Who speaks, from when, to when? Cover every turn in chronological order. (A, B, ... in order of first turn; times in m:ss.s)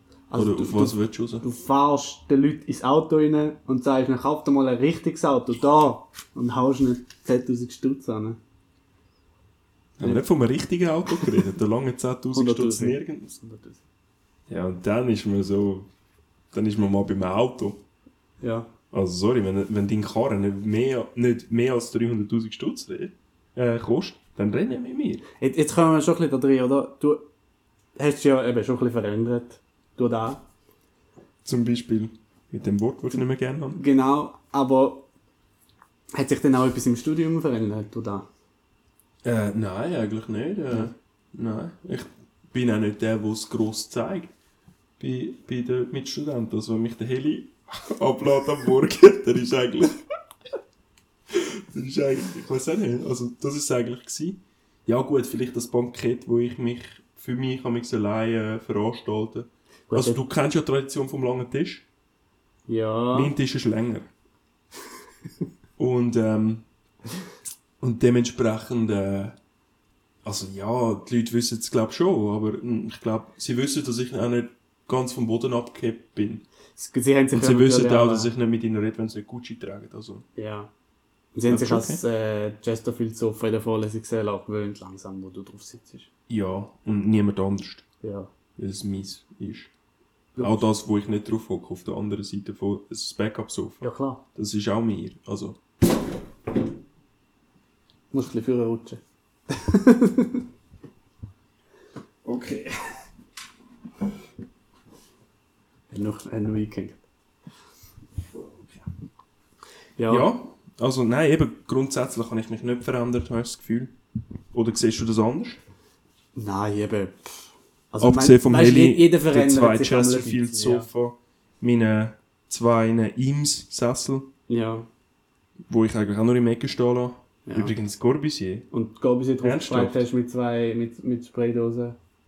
0:00.3-0:08.4 A
0:00.3-0:01.4 B
0:10.0-0:13.3 B
0:12.3-0:13.8 A
0:14.5-0:15.9 B
0:16.5-0:17.8 B
0:18.4-0:18.7 A
0:18.9-0:25.2 B
0:25.4-0:27.2 A
0:28.0-0:30.4 A
0:31.4-0:33.8 B
0:33.7-0:35.1 A
0:36.1-0:38.3 A
0:39.2-0:44.3 B
0:45.0-0:50.0 B
0:51.3-1:01.8 B
0:59.9-1:00.2 A
1:02.7-1:03.3 A
1:03.1-1:04.1 B
1:05.8-1:06.6 B
1:07.8-1:09.4 B
1:10.2-1:16.4 B
1:16.8-1:18.3 A
1:17.3-1:20.2 B
1:20.4-1:20.7 A
1:21.3-1:26.1 A
1:21.5-1:22.0 B
1:26.3-1:27.8 B
1:28.0-1:28.3 A
1:28.6-1:29.7 B
1:30.4-1:30.6 A
1:30.4-1:35.6 B
1:33.8-1:34.2 A
1:38.1-1:40.4 A
1:42.2-1:42.8 B
1:45.9-1:47.0 A
1:50.0-1:50.3 A
1:50.1-1:53.9 B
1:54.5-1:55.6 B
1:56.3-2:00.9 A
1:58.0-2:04.3 B
2:04.5-2:04.9 A
2:05.7-2:08.7 B
2:07.4-2:07.7 A
2:08.7-2:12.0 A
2:09.4-2:10.0 B